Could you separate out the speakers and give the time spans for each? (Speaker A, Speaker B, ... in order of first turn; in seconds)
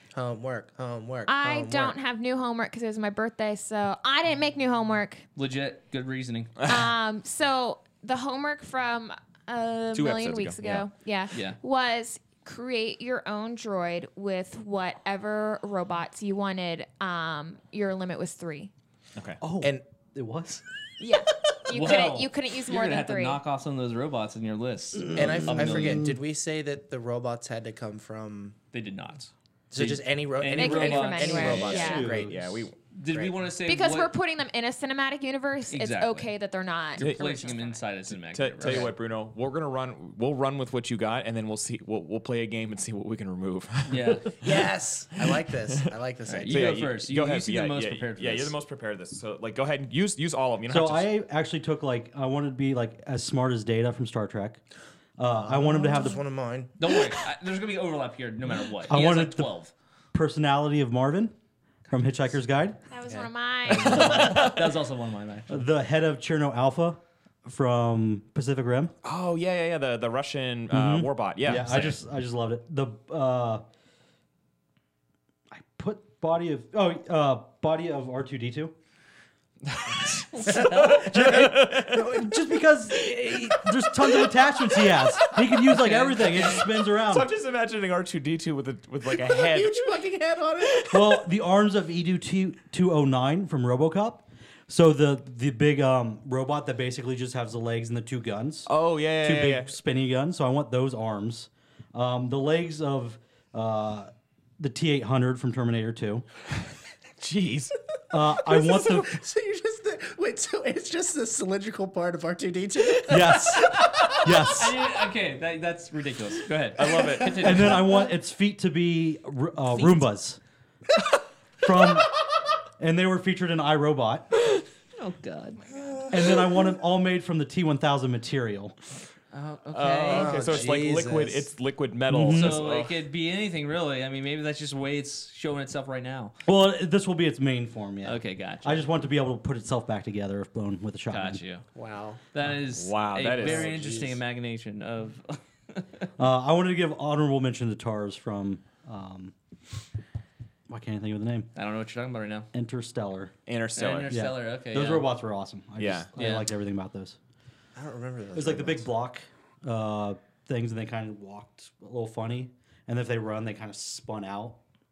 Speaker A: 0.1-1.9, 25.1-28.6, 29.7-32.4, 38.6-38.9, 44.4-46.8, 55.5-56.7, 89.1-91.2, 108.3-113.5, 130.1-131.5, 141.7-142.2, 143.4-144.2, 157.7-158.9
Speaker B: 1.2-5.2, 6.6-18.7, 21.0-23.4, 30.5-32.1, 33.6-37.8, 62.9-64.5
Speaker C: 5.3-6.5, 11.3-11.6, 21.7-26.0, 28.7-31.9, 32.9-34.1, 35.7-36.3, 36.9-38.9, 43.9-44.3, 46.2-48.5, 56.8-59.7, 63.7-65.6, 71.5-72.0, 80.3-81.1, 85.7-86.4, 113.1-118.0, 119.7-120.0, 124.9-126.0, 129.3-130.7, 132.3-136.3, 138.0-138.8, 141.1-141.7, 142.3-146.1, 151.5-152.5, 153.8-155.1, 156.2-156.5
Speaker D: 9.9-10.9, 31.6-32.7, 37.0-37.5, 38.1-44.7, 45.2-45.9, 46.5-51.1, 63.9-64.7, 69.0-71.8, 79.7-82.2, 86.1-89.9, 98.7-99.7, 107.2-107.7, 116.8-117.8, 129.7-132.9, 142.6-144.0, 153.4-154.1, 155.8-156.1
Speaker E: 19.4-20.6, 25.0-26.2, 31.6-32.7, 50.7-54.6, 55.2-56.2, 58.9-59.5, 60.1-61.3, 61.9-62.8, 65.5-68.9, 70.7-73.6, 75.5-78.7, 80.6-87.3, 90.9-106.2, 108.1-109.2, 113.1-114.8, 117.4-120.4, 121.6-122.2, 122.8-124.3, 126.1-128.7, 132.1-132.6, 136.4-141.4, 146.2-149.3, 150.7-151.5, 152.5-153.3, 154.1-157.2, 158.3-164.6